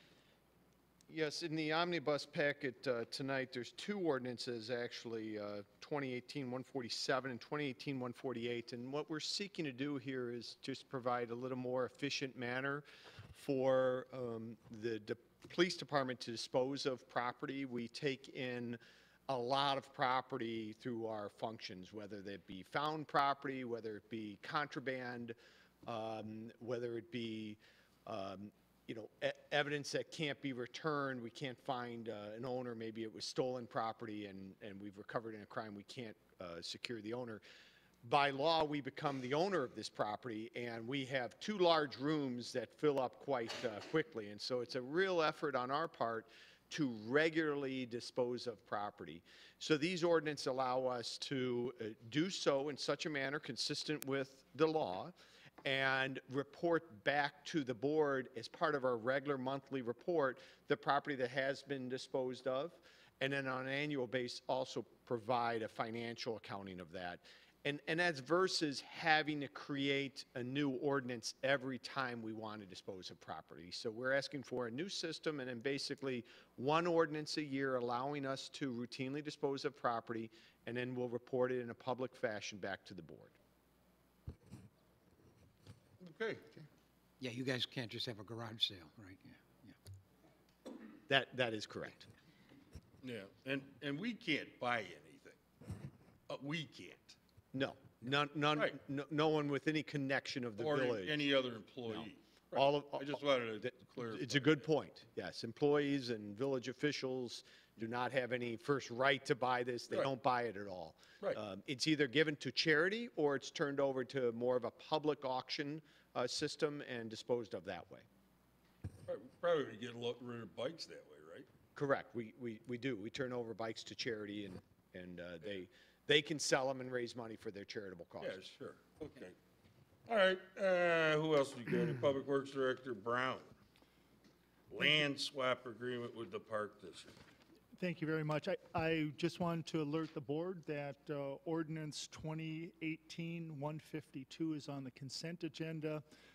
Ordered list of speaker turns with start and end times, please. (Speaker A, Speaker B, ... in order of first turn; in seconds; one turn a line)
Speaker A: 1.1-37.4
Speaker A: 38.0-83.3
Speaker B: 86.0-86.5
Speaker C: 87.2-89.7
Speaker A: 91.1-92.1
Speaker B: 93.0-95.4
Speaker B: 96.3-97.2
Speaker A: 97.5-101.2
Speaker B: 100.6-104.7
Speaker A: 101.9-103.2
Speaker A: 104.0-118.0
Speaker B: 119.1-121.5
Speaker A: 121.7-128.4
Speaker B: 128.2-129.3
Speaker B: 130.1-133.5
Speaker B: 134.7-137.2
Speaker D: 137.8-146.0